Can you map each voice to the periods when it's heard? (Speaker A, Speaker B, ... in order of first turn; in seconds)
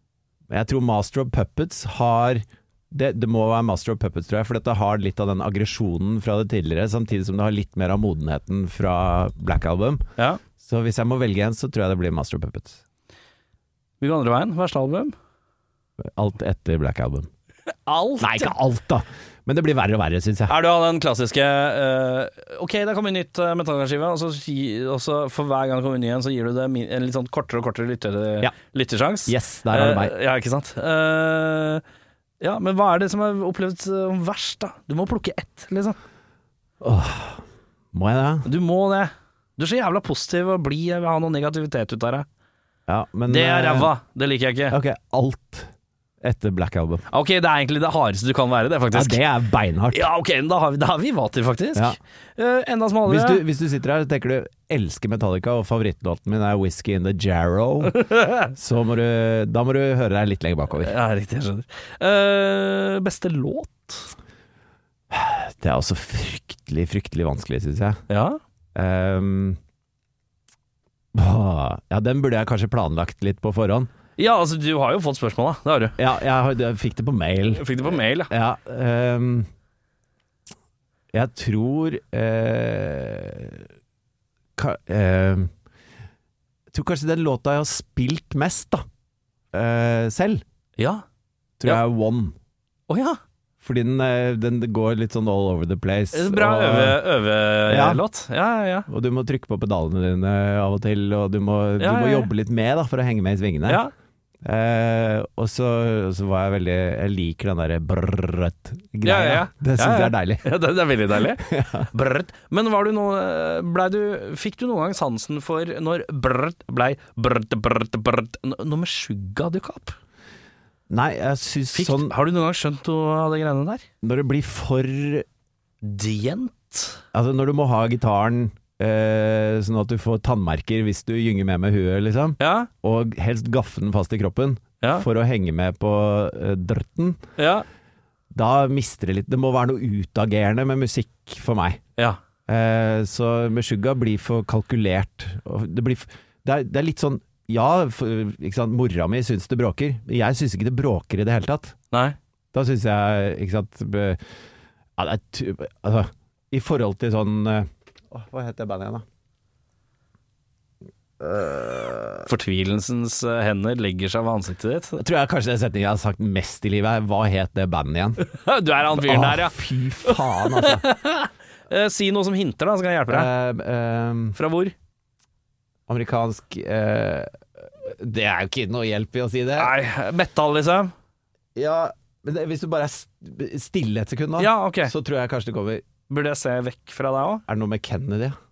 Speaker A: 0.5-10.0, 10.6-12.8, 16.0-17.3, 18.2-20.5, 29.2-30.1, 36.8-38.5, 42.9-43.9, 44.7-45.7, 46.2-47.0, 48.9-50.0, 53.0-60.9, 65.1-68.0, 68.7-69.6, 71.1-73.9, 76.0-79.5, 81.1-83.7, 84.6-85.5, 86.7-88.8, 89.5-90.4, 91.6-92.3, 93.6-97.0, 97.7-98.0, 98.9-103.8, 104.4-110.4, 111.4-111.9, 120.9-122.1, 124.0-125.2, 127.1-137.2, 138.3-141.8, 142.5-151.7, 152.5-154.2, 155.0-159.0, 161.2-162.3, 165.0-168.2, 168.8-170.8, 173.1-174.3, 175.9-179.7, 181.5-185.8, 187.5-188.3
Speaker B: 10.2-10.4, 14.0-15.1, 17.9-18.5, 20.5-31.8, 32.4-36.0, 38.4-42.2, 43.3-44.8, 47.1-49.2, 49.9-53.4, 57.9-58.5, 60.8-64.1, 68.1-68.4, 74.2-76.0, 77.5-78.3, 90.8-91.0, 92.9-93.2, 96.1-98.9, 101.8-102.3, 103.7-103.9, 109.0-120.0, 121.7-123.8, 125.8-127.0, 132.4-132.7, 137.4-137.6, 162.2-165.0, 168.2-173.3, 174.3-174.7, 179.6-180.9, 184.4-184.9, 186.1-187.4